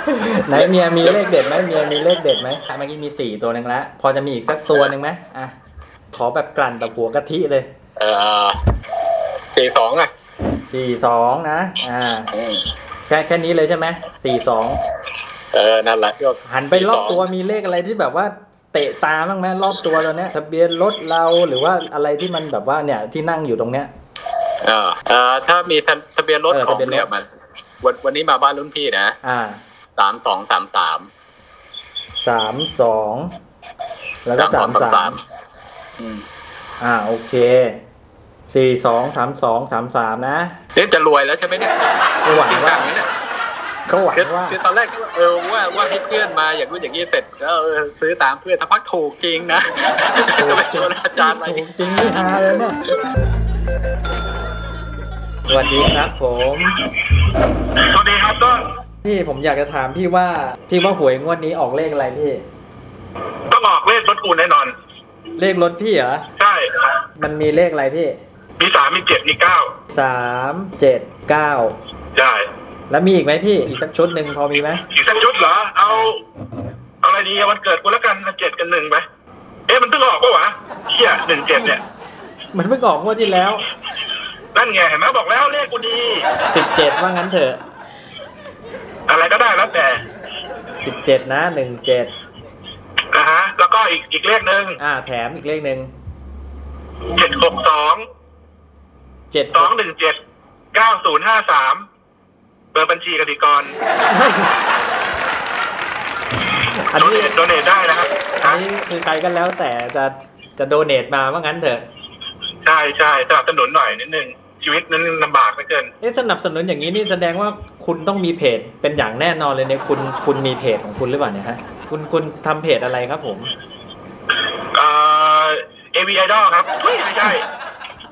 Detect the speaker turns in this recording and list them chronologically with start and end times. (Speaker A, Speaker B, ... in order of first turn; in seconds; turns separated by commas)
Speaker A: 0.2-5.5, Speaker B: 0.5-1.2, Speaker A: 6.1-7.7, Speaker B: 8.0-8.6, Speaker B: 9.5-10.1, Speaker A: 10.7-12.3, Speaker B: 12.3-12.7, Speaker A: 13.1-14.8, Speaker B: 15.5-17.3, Speaker A: 16.4-23.9, Speaker B: 24.6-27.2, Speaker A: 26.5-27.1, Speaker B: 27.8-29.2, Speaker A: 29.2-29.6, Speaker B: 30.0-31.1, Speaker A: 32.2-33.3, Speaker A: 34.2-35.2, Speaker B: 34.4-35.2, Speaker B: 36.0-36.2, Speaker A: 36.8-37.8, Speaker A: 38.5-40.6, Speaker B: 40.8-41.7, Speaker A: 42.2-43.0, Speaker B: 42.3-43.1, Speaker A: 43.9-44.6, Speaker B: 44.1-52.3, Speaker A: 50.4-52.8, Speaker A: 55.5-56.8, Speaker C: 57.9-58.6, Speaker A: 59.0-62.4, Speaker C: 63.5-64.7, Speaker A: 65.4-66.2, Speaker C: 66.4-67.0, Speaker A: 67.2-68.2, Speaker C: 68.6-69.7, Speaker A: 69.9-71.8, Speaker C: 72.2-72.5, Speaker A: 72.9-74.8, Speaker C: 74.9-76.2, Speaker A: 75.8-76.1, Speaker C: 77.0-79.0, Speaker C: 79.7-81.8, Speaker A: 82.5-83.6, Speaker C: 84.5-86.3, Speaker A: 86.5-87.6, Speaker C: 89.1-90.0, Speaker A: 90.8-92.1, Speaker C: 93.1-94.8, Speaker A: 94.8-95.9, Speaker C: 97.1-98.1, Speaker A: 99.3-99.7, Speaker C: 99.5-100.2, Speaker C: 100.7-101.9, Speaker C: 102.7-103.7, Speaker A: 104.1-104.5, Speaker A: 106.7-107.3, Speaker C: 107.0-108.6, Speaker A: 108.4-111.8, Speaker C: 112.6-115.9, Speaker A: 116.0-123.5, Speaker C: 124.7-127.5